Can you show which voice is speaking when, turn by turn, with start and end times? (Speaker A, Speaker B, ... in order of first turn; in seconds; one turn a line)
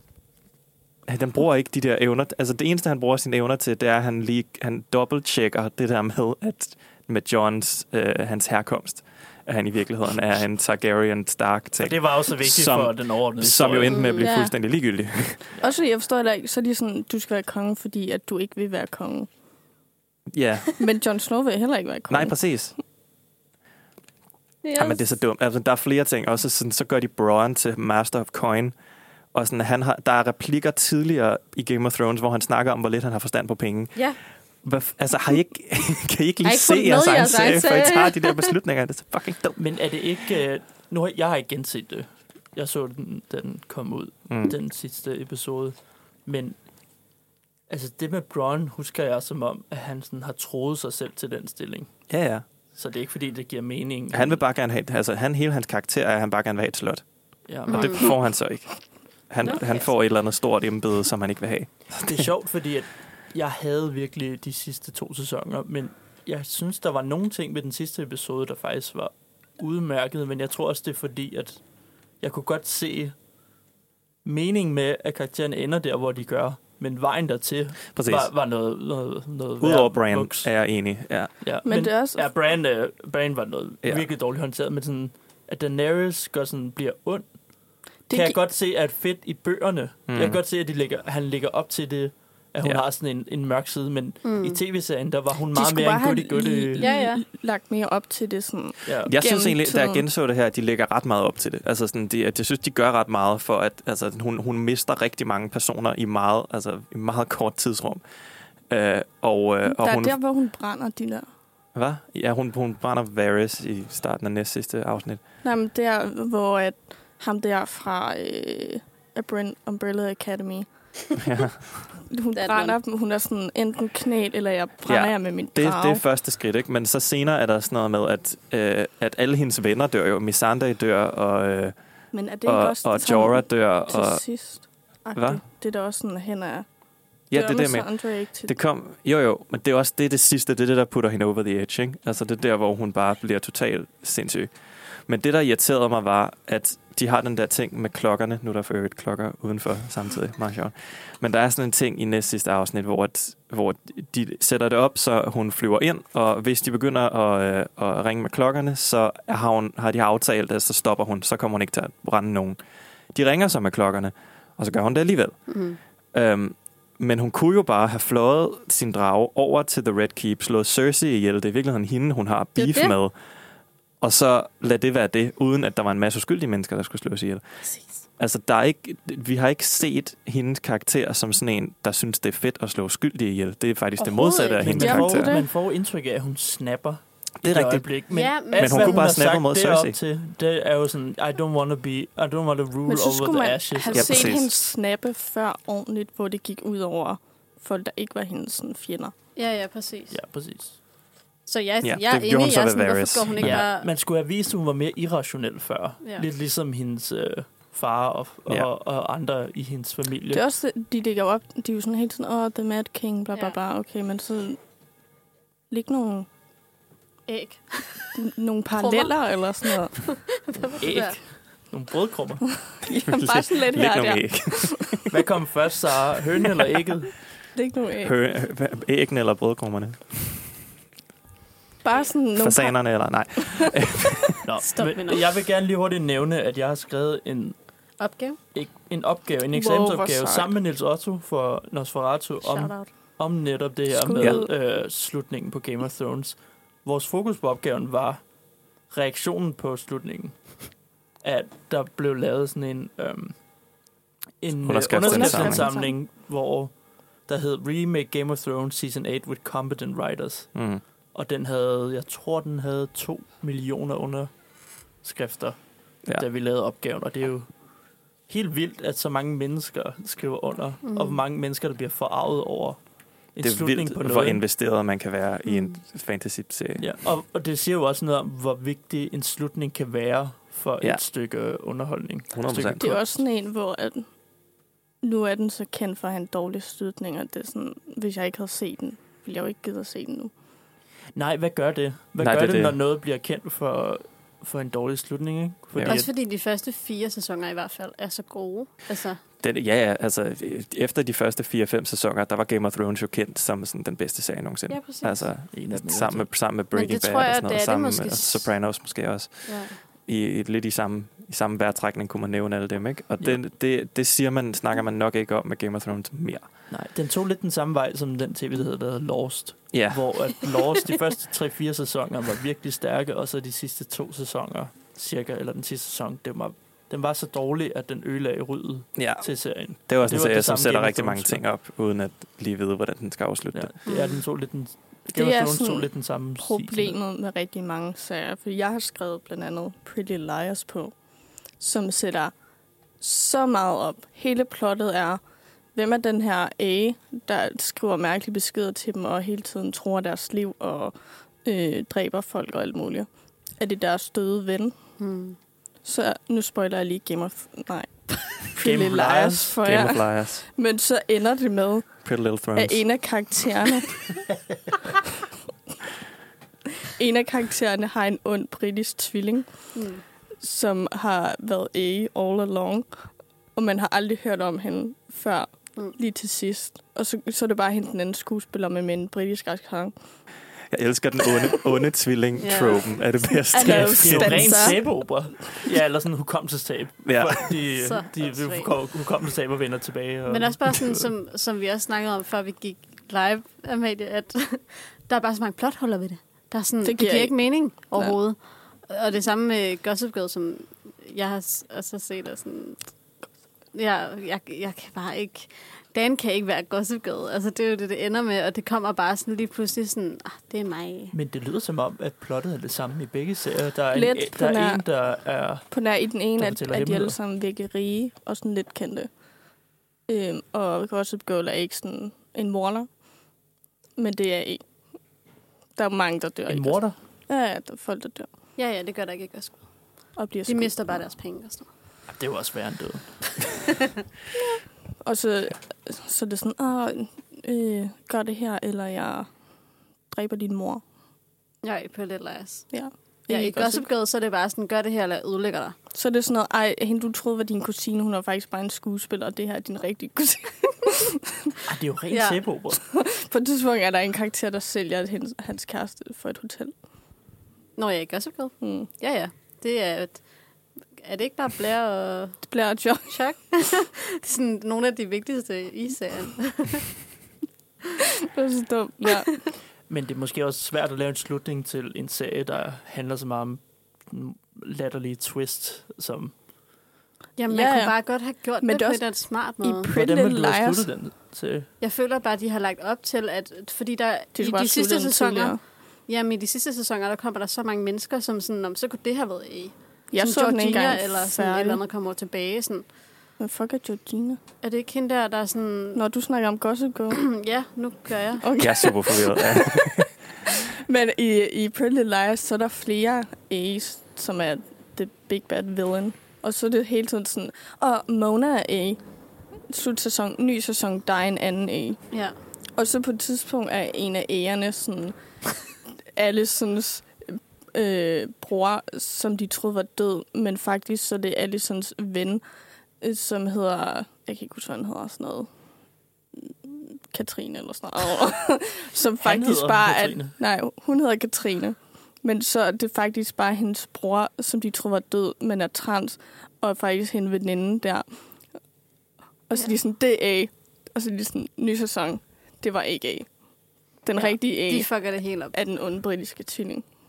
Speaker A: 1.1-15.5
Speaker B: 11.8-14.0
Speaker C: 13.8-14.3
Speaker D: 14.2-14.5
Speaker D: 15.6-19.3
Speaker A: 20.3-20.7
Speaker D: 20.8-22.4
Speaker A: 22.1-22.7
Speaker C: 24.6-25.1
Speaker A: 24.8-28.7
Speaker A: 29.3-34.0
Speaker A: 34.6-39.6
Speaker C: 36.4-38.5
Speaker B: 39.6-46.6
Speaker A: 44.3-44.5
Speaker B: 47.7-51.9
Speaker A: 52.1-52.4
Speaker B: 52.8-54.4
Speaker A: 54.1-57.0
Speaker B: 57.5-58.1
Speaker A: 57.6-58.8
Speaker C: 57.7-58.1
Speaker A: 59.3-62.3
Speaker C: 59.4-59.8
Speaker B: 62.0-71.6
Speaker B: 72.2-73.1
Speaker B: 74.2-80.5
Speaker A: 77.9-78.3
Speaker A: 79.6-81.3
Speaker B: 81.4-87.3
Speaker D: 81.6-82.3
Speaker D: 88.1-88.4
Speaker B: 88.1-96.8
Speaker A: 90.1-90.4
Speaker C: 94.2-94.6
Speaker D: 95.5-100.0
Speaker C: 96.8-97.2
Speaker B: 98.8-99.1
Speaker A: 99.0-108.0
Speaker A: 108.7-110.2
Speaker D: 109.6-111.3
Speaker A: 111.7-115.2
Speaker D: 115.4-120.7
Speaker A: 121.2-121.6
Speaker D: 122.1-126.0
Speaker C: 122.3-122.8
Speaker A: 124.8-131.7
Speaker D: 132.1-136.7
Speaker A: 132.4-134.2
Speaker A: 135.1-135.4
Speaker A: 137.3-144.5
Speaker D: 137.3-138.5
Speaker A: 145.1-162.6
Speaker A: 163.1-165.4
Speaker C: 165.5-165.8
Speaker A: 166.1-173.1
Speaker C: 172.6-172.9
Speaker A: 174.0-177.4
Speaker A: 178.2-185.3
Speaker C: 184.0-184.7
Speaker B: 184.6-194.4
Speaker D: 184.7-185.5
Speaker A: 187.4-189.9
Speaker C: 188.1-189.1
Speaker D: 192.8-199.1
Speaker A: 193.9-194.5
Speaker C: 199.3-200.2
Speaker B: 200.1-200.8
Speaker C: 201.5-203.9
Speaker A: 201.8-203.6
Speaker B: 203.4-210.4
Speaker D: 210.3-214.6
Speaker D: 215.7-216.3
Speaker C: 217.3-218.1
Speaker D: 218.1-219.9
Speaker C: 218.8-219.2
Speaker C: 219.9-221.2
Speaker B: 220.8-222.5
Speaker D: 222.7-225.0
Speaker A: 223.0-225.2
Speaker B: 225.1-227.1
Speaker D: 227.5-228.1
Speaker A: 228.0-230.5
Speaker D: 231.8-232.8
Speaker A: 232.3-234.4
Speaker B: 234.4-237.6
Speaker C: 234.6-235.3
Speaker C: 238.0-238.4
Speaker B: 238.5-248.2
Speaker D: 239.5-240.5
Speaker C: 242.4-242.7
Speaker D: 243.9-244.5
Speaker B: 248.9-250.6
Speaker B: 251.2-253.4
Speaker B: 254.4-256.7
Speaker A: 254.6-255.7
Speaker D: 255.0-255.9
Speaker B: 257.2-260.5
Speaker A: 260.5-260.8
Speaker B: 261.1-264.3
Speaker B: 265.0-267.5
Speaker B: 268.3-272.8
Speaker C: 270.8-271.2
Speaker B: 273.3-274.4
Speaker A: 273.4-276.9
Speaker C: 275.5-275.8
Speaker B: 276.8-282.9
Speaker A: 282.3-282.9
Speaker D: 282.8-284.1
Speaker D: 285.0-290.3
Speaker B: 291.1-296.1
Speaker A: 292.2-292.8
Speaker A: 295.7-296.0
Speaker C: 295.9-299.2
Speaker A: 299.4-316.4
Speaker C: 304.7-305.3
Speaker B: 305.5-306.3
Speaker C: 306.7-308.5
Speaker C: 309.4-309.8
Speaker B: 316.7-331.4
Speaker A: 319.7-320.3
Speaker A: 328.9-333.7
Speaker B: 333.5-336.9
Speaker C: 333.9-334.2
Speaker D: 335.1-340.9
Speaker D: 341.6-342.3
Speaker D: 343.0-345.2
Speaker D: 345.7-354.8
Speaker C: 355.0-355.4
Speaker D: 355.8-363.9
Speaker B: 358.6-359.6
Speaker A: 359.6-360.4
Speaker A: 362.0-362.9
Speaker D: 366.9-369.8
Speaker C: 369.7-370.0
Speaker D: 370.4-379.9
Speaker A: 380.7-384.7
Speaker C: 382.4-382.9
Speaker D: 383.5-385.1
Speaker B: 383.6-391.1
Speaker A: 387.0-387.6
Speaker C: 387.7-388.7
Speaker C: 390.3-402.9
Speaker D: 396.8-398.1
Speaker C: 403.7-411.1
Speaker B: 411.1-415.8
Speaker D: 413.9-414.8
Speaker D: 415.7-419.1
Speaker B: 416.4-417.1
Speaker D: 420.1-422.9
Speaker D: 424.0-424.6
Speaker D: 425.8-428.3
Speaker B: 426.5-426.9
Speaker C: 428.6-429.6
Speaker D: 430.1-431.0
Speaker C: 430.4-431.7
Speaker B: 432.1-433.4
Speaker D: 435.0-439.3
Speaker D: 440.1-440.8
Speaker C: 441.6-442.7
Speaker D: 442.7-443.8
Speaker C: 443.3-445.8
Speaker D: 445.9-451.2
Speaker B: 451.6-452.8
Speaker C: 452.1-452.4
Speaker D: 452.8-456.7
Speaker C: 457.8-460.2
Speaker D: 458.6-458.9
Speaker C: 461.0-466.9
Speaker D: 462.4-463.2
Speaker D: 468.3-469.4
Speaker B: 469.9-476.3
Speaker C: 477.4-479.9
Speaker D: 477.5-477.9
Speaker D: 478.6-479.1
Speaker D: 479.6-480.9
Speaker B: 479.9-481.7
Speaker C: 481.8-492.8
Speaker D: 484.3-485.6
Speaker D: 490.1-491.8
Speaker D: 493.4-494.4
Speaker C: 494.6-496.0
Speaker D: 495.9-497.2
Speaker C: 497.1-498.6
Speaker D: 498.4-509.0
Speaker A: 498.6-500.1
Speaker D: 509.7-512.0
Speaker D: 512.8-515.1
Speaker D: 516.1-522.4
Speaker D: 523.0-525.5
Speaker D: 526.4-538.2
Speaker B: 529.2-530.3
Speaker D: 539.5-543.3
Speaker D: 544.0-544.9
Speaker C: 544.1-545.5
Speaker D: 545.5-546.9